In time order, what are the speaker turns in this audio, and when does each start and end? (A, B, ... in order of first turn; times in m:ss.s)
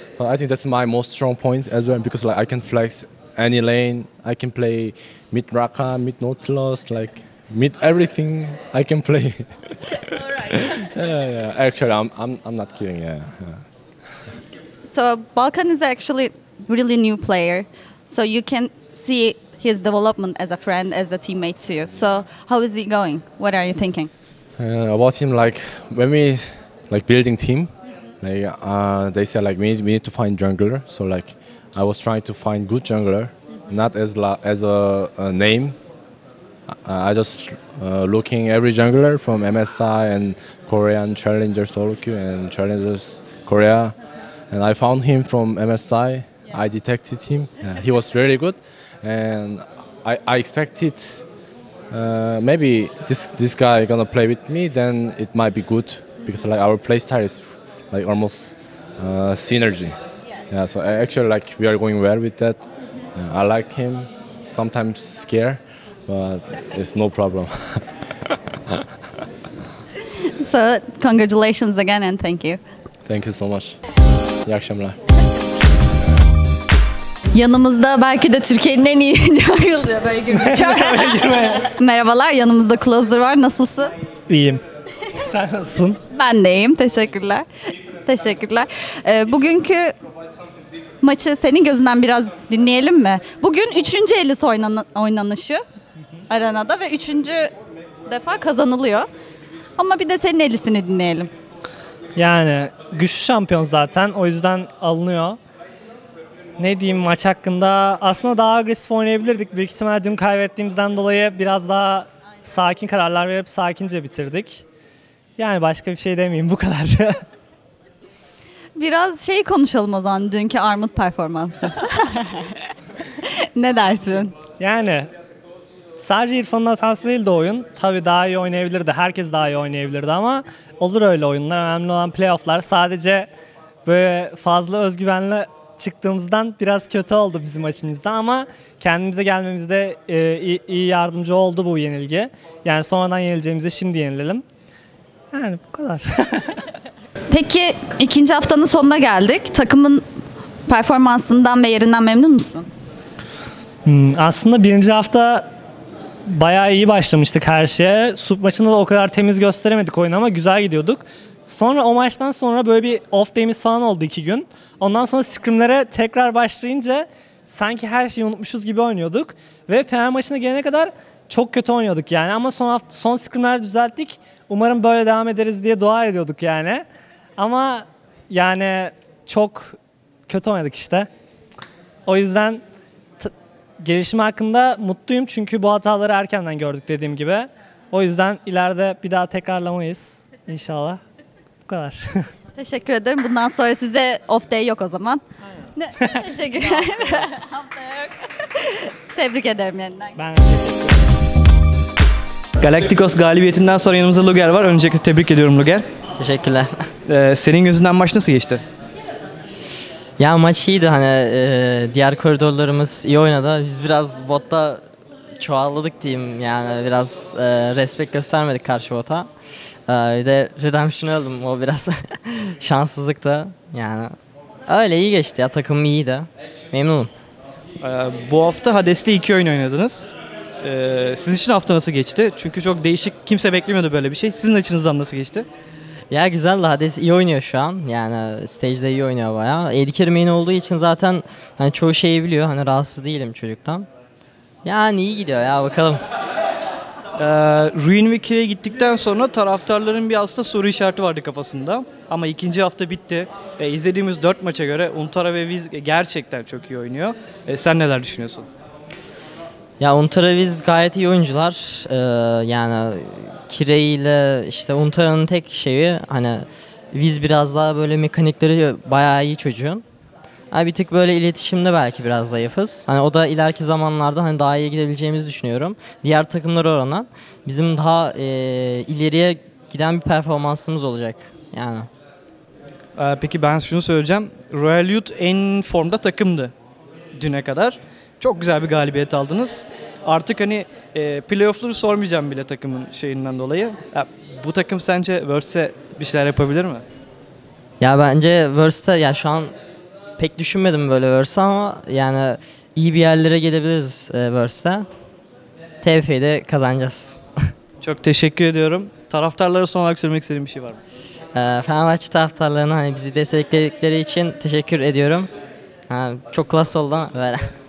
0:00.2-0:13.6 A
0:14.8-0:24.1 B
0:24.6-0:35.8 A
0:36.8-0:43.9 A
0:44.5-0:51.2 A
0:51.9-1:00.0 A
1:00.5-1:07.8 A
1:10.4-1:12.6 B
1:13.1-1:13.8 A
1:14.4-1:15.0 A
1:17.3-1:23.9 B
1:20.3-1:21.6 C
1:24.3-1:24.6 C
1:25.2-1:26.0 C
1:26.1-1:27.4 B
1:28.0-1:29.9 B
1:31.0-1:35.6 B
1:36.3-1:37.5 B
1:38.1-1:39.1 B
1:39.8-1:41.3 B
1:42.2-1:45.4 C
1:46.6-1:54.6 C
1:55.4-1:57.2 C
1:58.7-2:02.5 B
2:03.6-2:04.3 B
2:04.6-2:05.1 C
2:06.0-2:13.3 C
2:13.8-2:24.4 C
2:25.3-2:26.6 C
2:27.3-2:30.0 B
2:30.7-2:32.7 B
2:33.8-2:35.4 C
2:36.3-2:56.8 C
2:57.4-2:59.8 C
3:00.3-3:01.1 C
3:02.1-3:02.6 C
3:03.2-3:11.0 C
3:11.7-3:12.2 C
3:12.6-3:15.2 B
3:15.7-3:20.2 B
3:20.2-3:21.1 C
3:22.6-3:25.8 D
3:26.2-3:26.8 E
3:27.1-3:28.6 D
3:30.2-3:34.8 E
3:35.4-3:39.3 E
3:39.9-3:44.2 E
3:44.7-3:47.1 E
3:47.8-3:55.5 D
3:56.1-4:03.9 E
4:04.6-4:06.0 E
4:07.2-4:18.5 D
4:19.8-4:29.8 E
4:30.5-4:41.9 E
4:42.9-4:46.5 D
4:47.2-4:56.8 D
4:57.8-4:59.5 E
5:00.2-5:04.9 E
5:05.8-5:07.2 E
5:07.8-5:10.8 D
5:11.3-5:15.3 E
5:15.9-5:17.5 E